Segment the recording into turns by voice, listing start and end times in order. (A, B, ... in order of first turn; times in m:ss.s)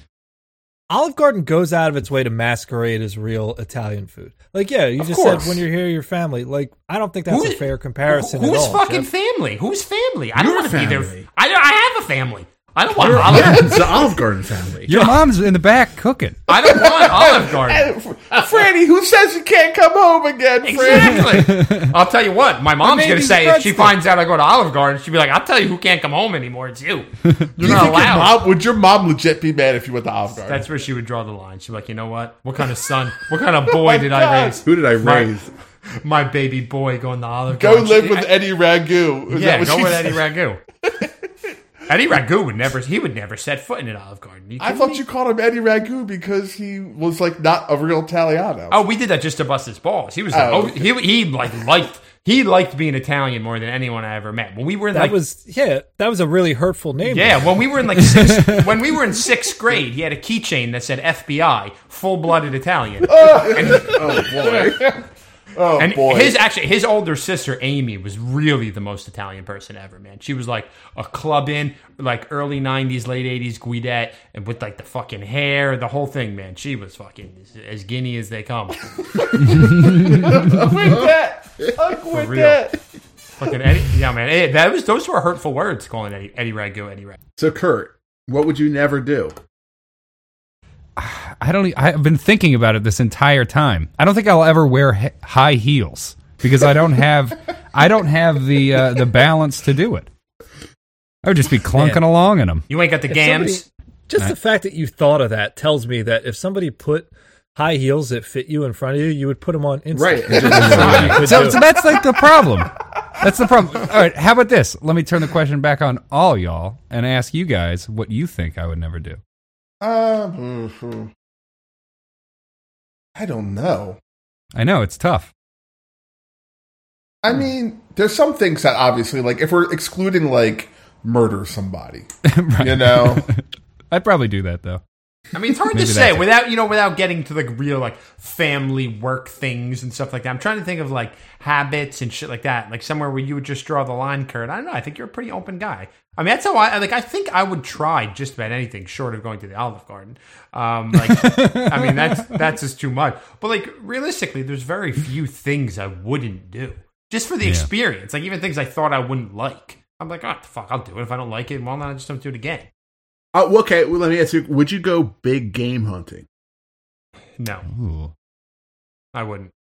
0:00.9-0:09.1 A
0:05.1-0:05.5 B
0:07.3-0:14.1 C
0:10.4-0:11.3 D
0:13.0-0:14.9 D
0:14.9-0:16.5 E
0:16.5-0:17.9 C
0:16.6-0:21.4 B
0:20.6-0:28.4 C
0:21.2-0:21.9 E
0:22.8-0:24.0 E
0:27.6-0:30.6 B
0:30.3-0:35.3 C
0:33.7-0:34.6 B
0:34.6-0:35.5 D
0:36.0-0:38.4 C
0:37.5-0:40.2 B
0:39.3-0:40.6 C
0:41.9-0:45.0 C
0:44.6-0:48.8 B
0:48.7-0:55.2 C
0:50.3-0:50.9 B
0:54.9-0:57.5 A
0:57.1-1:04.3 C
0:58.3-0:58.6 E
1:03.0-1:05.0 B
1:03.6-1:04.9 D
1:05.6-1:06.4 B
1:05.8-1:18.9 C
1:19.1-1:22.8 B
1:19.6-1:20.0 E
1:20.7-1:21.8 D
1:22.1-1:22.6 C
1:23.4-1:27.2 C
1:27.4-1:29.4 D
1:31.0-1:40.1 E
1:41.2-1:42.7 E
1:41.7-1:42.0 A
1:42.7-1:43.7 C
1:43.1-1:51.6 A
1:49.9-1:51.5 D
1:50.5-1:51.4 C
1:50.5-1:59.2 E
1:50.7-1:51.0 B
1:59.8-2:01.1 B
2:03.2-2:04.0 B
2:04.5-2:05.3 E
2:07.2-2:12.1 B
2:12.2-2:14.8 E
2:12.6-2:13.3 B
2:15.3-2:42.7 C
2:15.7-2:16.3 E
2:31.0-2:32.4 E
2:43.3-2:46.3 D
2:47.4-2:47.7 C
2:47.7-2:48.1 E
2:49.1-2:49.5 C